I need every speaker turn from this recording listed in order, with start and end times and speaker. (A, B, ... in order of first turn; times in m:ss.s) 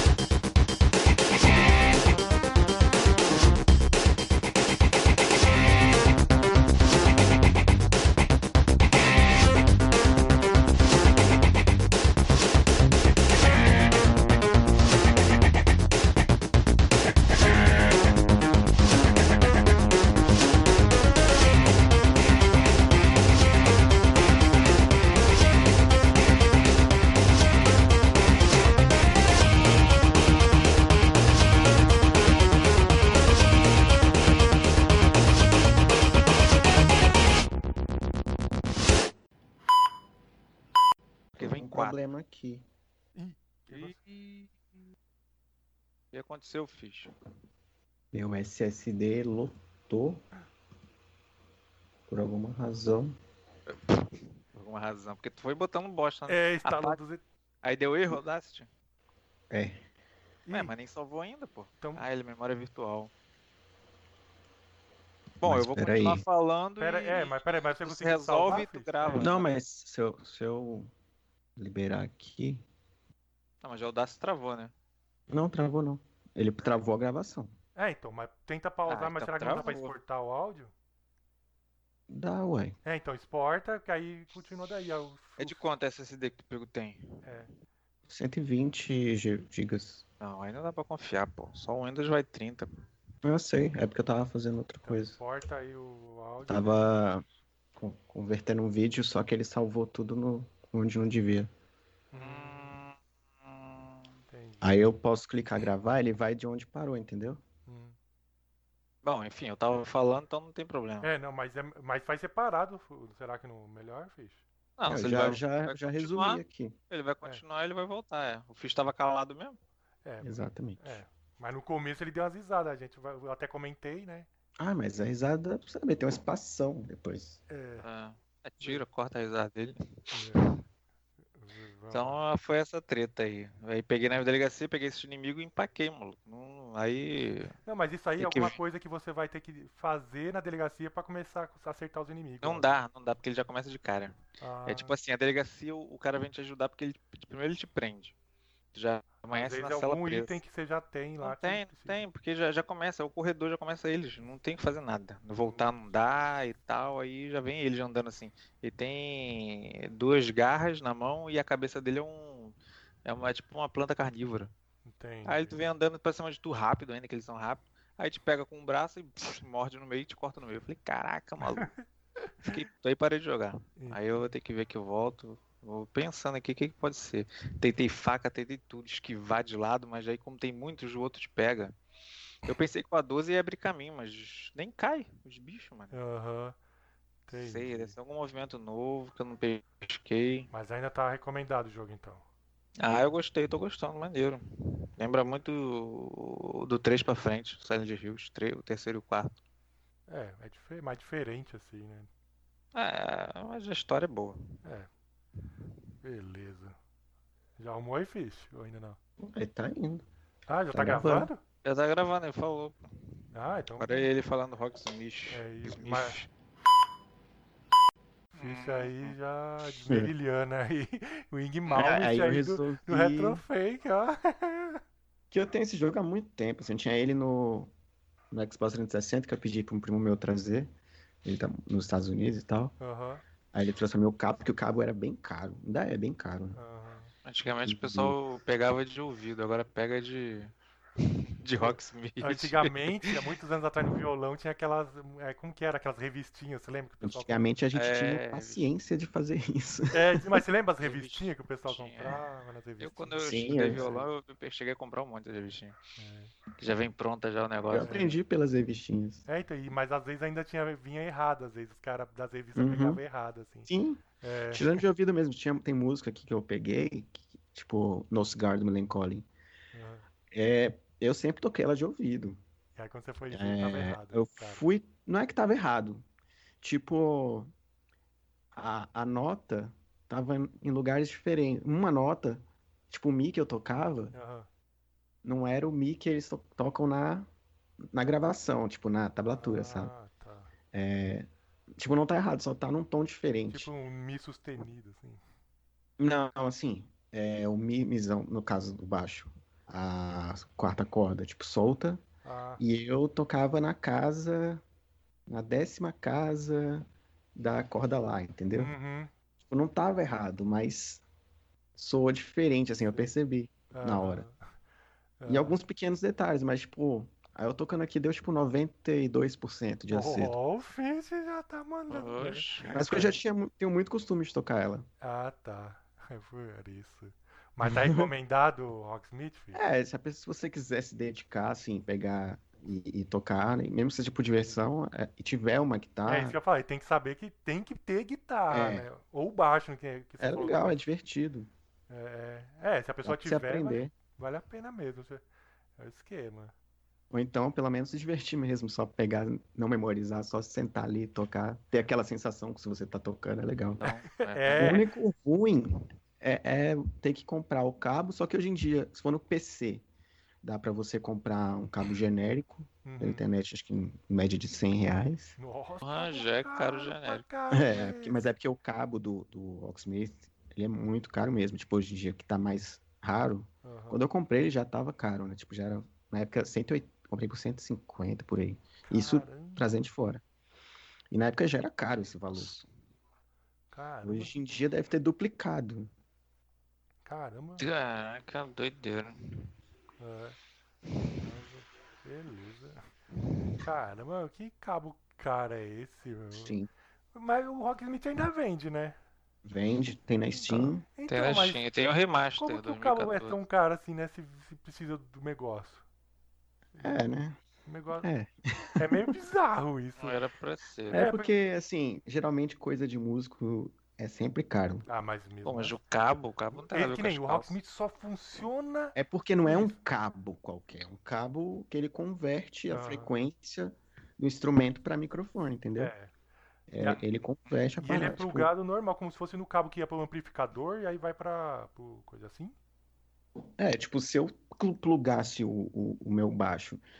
0:41.4-0:42.0 A
0:41.4-0:42.6 B
0:43.2-0:44.5 C
0:43.7-0:44.0 A
0:46.1-0:47.1 A
0:48.1-0:50.2 B
0:52.1-0:53.2 B
0:53.7-0:57.0 A
0:56.3-0:57.2 C
0:57.6-0:58.7 A
0:59.5-0:59.8 B
1:00.4-1:00.7 C
1:00.5-1:03.1 A
1:05.4-1:09.6 A
1:05.4-1:06.2 B
1:06.8-1:09.3 C
1:09.1-1:10.9 B
1:11.6-1:12.6 B
1:13.6-1:14.7 A
1:15.3-1:17.5 B
1:17.8-1:20.7 C
1:18.9-1:19.9 A
1:22.1-1:22.8 B
1:22.8-1:25.6 C
1:25.4-1:27.2 A
1:27.2-1:27.5 C
1:28.1-1:30.0 B
1:30.2-1:32.7 A
1:33.2-1:35.2 B
1:34.8-1:36.8 C
1:36.5-1:37.2 B
1:37.8-1:41.5 B
1:42.1-1:42.8 C
1:42.1-1:43.9 A
1:44.3-1:44.8 C
1:44.6-1:47.4 B
1:47.7-1:48.0 C
1:49.0-1:51.1 A
1:51.0-1:54.4 C
1:54.8-1:59.6 A
1:54.9-1:56.7 B
2:00.0-2:04.3 C
2:00.2-2:01.0 B
2:04.6-2:07.4 B
2:07.5-2:07.8 C
2:07.8-2:10.6 A
2:10.1-2:10.4 C
2:11.4-2:12.2 C
2:11.9-2:17.5 A
2:17.6-2:22.7 C
2:18.2-2:18.6 A
2:22.4-2:28.1 A
2:24.4-2:24.9 C
2:28.7-2:30.4 A
2:29.3-2:32.0 C
2:31.2-2:42.5 A
2:35.4-2:35.7 C
2:43.0-2:44.5 A
2:44.8-2:45.6 C
2:45.2-2:51.7 A
2:51.4-2:51.8 C
2:52.4-3:01.7 A
3:02.4-3:05.9 A
3:05.9-3:06.6 C
3:07.3-3:07.9 C
3:07.3-3:10.5 A
3:10.5-3:12.2 C
3:12.8-3:14.4 A
3:15.0-3:19.4 A
3:20.1-3:22.1 C
3:22.7-3:24.4 A
3:24.6-3:24.9 C
3:26.0-3:26.8 C
3:27.6-3:29.0 C
3:29.2-3:30.0 B
3:30.5-3:31.4 C
3:30.7-3:31.3 B
3:31.6-3:32.8 A
3:33.3-3:34.1 C
3:33.8-3:36.3 A
3:35.3-3:36.2 C
3:38.3-3:44.8 C
3:38.4-3:39.2 A
3:41.7-3:42.0 A
3:41.8-3:43.4 B
3:45.3-3:47.7 B
3:48.3-3:50.7 B
3:51.2-3:52.8 B
3:52.8-3:53.2 C
3:53.5-3:56.6 B
3:56.5-3:57.1 C
3:57.2-4:03.1 A
3:57.6-3:58.2 B
4:01.6-4:07.5 C
4:07.0-4:10.4 B
4:07.7-4:08.7 A
4:09.9-4:14.1 C
4:10.8-4:12.2 A
4:12.8-4:15.7 A
4:13.2-4:13.9 B
4:16.0-4:16.3 C
4:16.6-4:18.0 A
4:17.7-4:19.2 B
4:17.8-4:18.2 C
4:19.3-4:23.7 C
4:22.6-4:23.0 B
4:23.7-4:29.3 B
4:24.2-4:24.8 C
4:29.7-4:30.0 C
4:30.3-4:32.4 B
4:32.8-4:34.6 C
4:33.3-4:36.0 B
4:36.6-4:37.5 B
4:38.5-4:44.1 B
4:44.1-4:44.5 C
4:45.2-4:47.3 B
4:47.9-4:49.9 B
4:49.3-4:50.5 C
4:50.7-4:53.7 B
4:53.5-4:55.2 C
4:56.0-5:02.0 B
5:02.2-5:02.6 C
5:02.6-5:04.6 B
5:05.3-5:08.7 B
5:08.5-5:09.1 C
5:09.5-5:11.0 B
5:11.8-5:14.2 B
5:13.7-5:14.4 C
5:15.2-5:15.6 C
5:15.3-5:20.3 B
5:19.9-5:22.4 C
5:21.9-5:23.1 A
5:22.7-5:24.9 B
5:25.0-5:29.6 C
5:27.6-5:28.1 B
5:29.5-5:36.4 B
5:36.0-5:40.8 C
5:38.5-5:38.9 B
5:40.2-5:41.5 B
5:41.9-5:45.2 C
5:43.0-5:43.9 B
5:45.8-5:46.5 C
5:47.1-5:53.9 B
5:53.8-5:54.8 A
5:54.3-5:54.8 C
5:54.6-5:59.8 B
6:00.4-6:05.3 B
6:02.8-6:03.2 C
6:05.4-6:08.2 C
6:05.8-6:07.2 A
6:07.5-6:20.2 B
6:13.6-6:14.0 C
6:18.9-6:19.7 C
6:21.1-6:22.5 B
6:22.3-6:22.6 A
6:23.7-6:24.3 C
6:24.0-6:25.9 B
6:27.0-6:27.6 C
6:27.6-6:29.5 A
6:30.0-6:30.4 C
6:31.2-6:32.8 C
6:33.6-6:36.5 C
6:36.4-6:36.7 B
6:37.1-6:39.0 C
6:39.4-6:40.8 B
6:40.4-6:41.6 C
6:41.1-6:43.4 A
6:42.4-6:45.8 C
6:46.8-6:47.0 C
6:46.8-6:47.4 B
6:47.6-6:48.1 C
6:48.0-6:49.0 B
6:48.8-6:50.2 C
6:50.0-6:51.1 A
6:50.9-6:54.9 B
6:51.0-6:51.3 C
6:54.9-6:55.8 C
6:55.4-6:57.6 A
6:56.6-6:59.7 C
6:58.9-7:05.9 B
7:02.7-7:03.1 C
7:05.8-7:06.1 C
7:06.7-7:08.5 B
7:07.8-7:12.6 C
7:13.6-7:16.8 B